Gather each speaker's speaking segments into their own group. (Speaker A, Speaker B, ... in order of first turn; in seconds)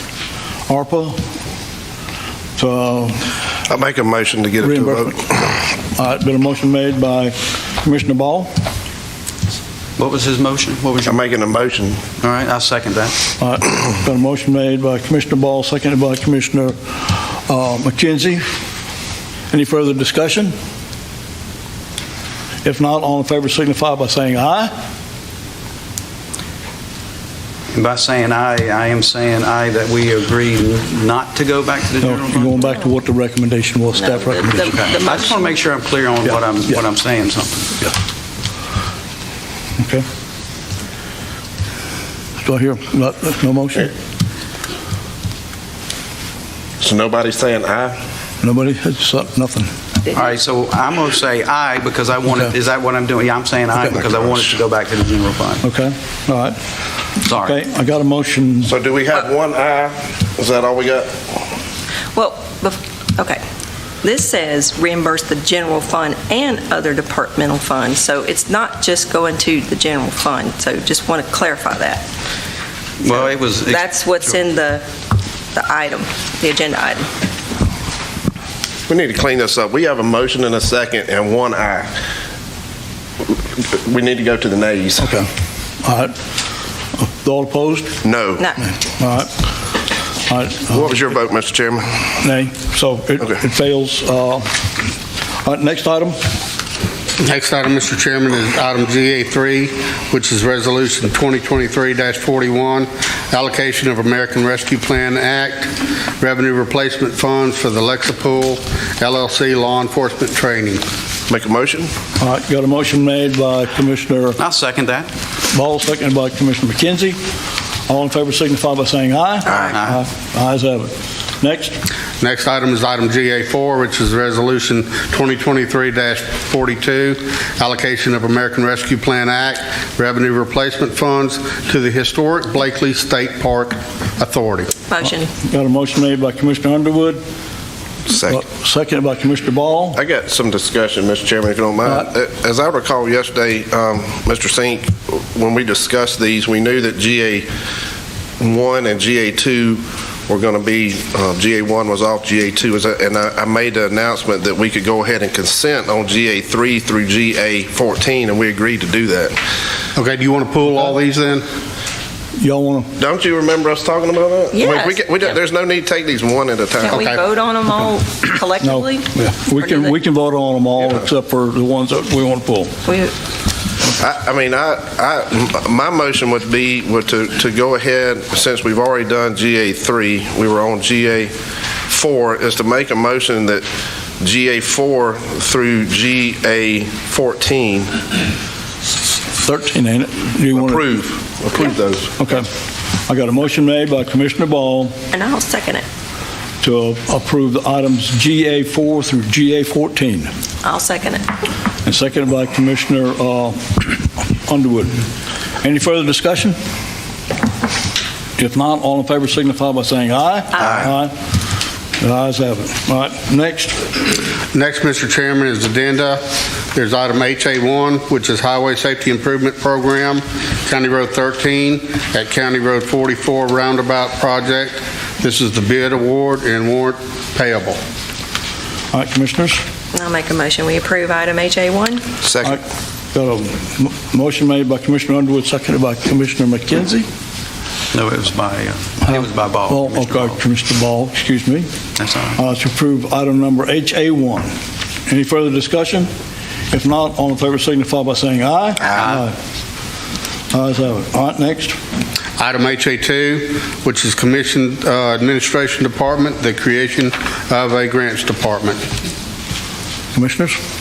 Speaker A: 0.7-1.2, 2.6-3.3, 4.6-5.2, 5.9-8.5, 13.4-18.4, 19.5-20.5, 22.6-24.7, 32.0-34.7, 39.8-40.0, 42.4-43.9, 48.4-49.7, 55.6-56.6, 57.3-58.7, 85.0-85.3, 85.8-86.2, 86.9-87.9, 89.0-89.3, 90.3-90.9, 92.2-94.5, 95.4-96.2, 112.2-114.4, 115.5-117.2, 117.9-121.8, 135.0-137.2, 138.2-140.0, 162.4-162.9, 168.6-172.8, 189.4-190.8, 192.2-192.5, 193.1-194.9, 196.6-200.3, 201.8-205.0, 205.6-206.6, 208.4-211.1, 212.0-213.9, 228.9-229.6, 233.1-237.1, 239.0-241.7, 242.3-244.5, 245.1-246.1, 246.7-249.3, 250.5-251.8, 260.1-260.6
Speaker B: 3.6-5.5, 11.0-12.0, 46.8-48.0, 58.6-61.3, 78.9-81.9, 83.2-85.2, 88.0-88.5, 90.7-92.0, 111.3-111.9, 138.1-138.4, 139.9-147.5, 148.4-159.4, 163.0-167.0, 174.0-181.3, 181.8-183.7, 184.2-188.0, 190.5-192.1, 232.2-232.6
Speaker C: 10.0-11.2, 12.2-13.2, 27.7-32.6, 34.7-37.7, 50.1-55.6, 57.2-57.5, 73.0-74.4, 114.4-115.1, 119.7-120.0, 237.9-240.4, 241.9-242.4, 248.9-249.2
Speaker D: 34.0-35.4, 62.1-63.4, 64.0-72.0, 73.6-74.8, 75.5-77.1, 134.9-135.3, 164.5-165.0, 166.8-169.9, 172.8-173.1, 195.1-195.8, 200.6-201.3, 229.9-232.0
Speaker E: 97.2-110.8, 122.2-134.8, 159.9-161.4, 166.9-167.2, 214.5-216.2, 216.7-227.8, 252.4-258.8